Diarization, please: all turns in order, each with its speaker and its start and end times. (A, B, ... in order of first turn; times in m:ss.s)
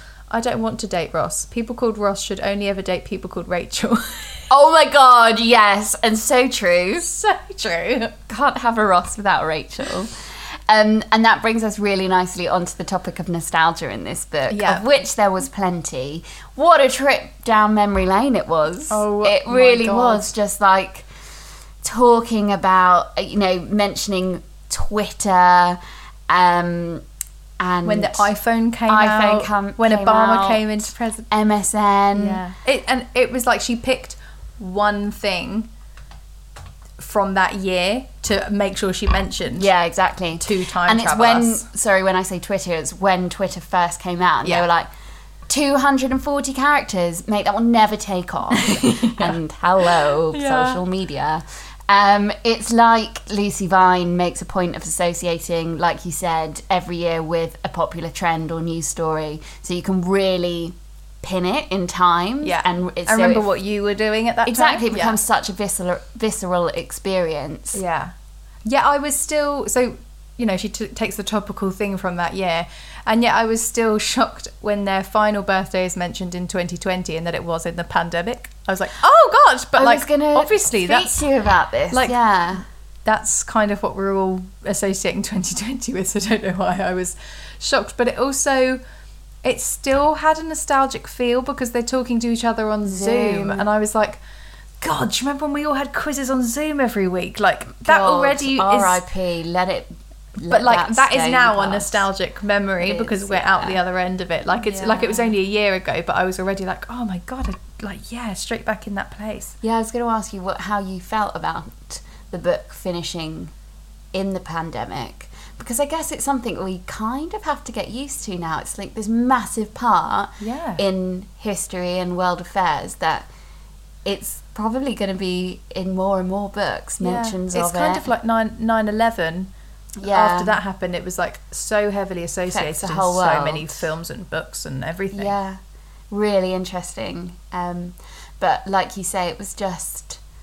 0:00.3-0:04.4 A
0:04.5-0:07.1 B
0:07.0-0:08.2 A
0:08.3-0:21.1 B
0:14.5-0:14.9 A
0:18.9-0:20.3 A
0:21.8-0:27.0 B
0:27.6-0:28.3 B
0:27.8-0:31.3 A
0:28.9-0:32.4 B
0:32.2-0:35.7 A
0:37.0-0:39.7 A
0:39.6-0:44.9 B
0:40.4-0:41.7 A
0:45.5-1:03.5 B
0:48.7-0:50.8 A
1:02.4-1:05.2 A
1:04.4-1:07.8 B
1:07.7-1:08.1 A
1:08.6-1:21.2 A
1:19.8-1:22.6 B
1:21.9-1:22.2 A
1:23.0-1:28.8 A
1:29.4-1:34.2 A
1:32.8-1:33.7 B
1:34.8-1:39.0 A
1:37.8-1:42.0 B
1:40.5-1:49.6 A
1:42.8-1:43.8 B
1:44.6-1:45.3 B
1:49.6-1:53.5 B
1:54.1-2:03.3 B
2:00.4-2:00.8 A
2:04.0-2:08.1 B
2:07.0-2:09.5 A
2:10.0-2:10.6 B
2:10.0-2:15.3 A
2:12.5-2:13.8 B
2:15.1-2:20.2 B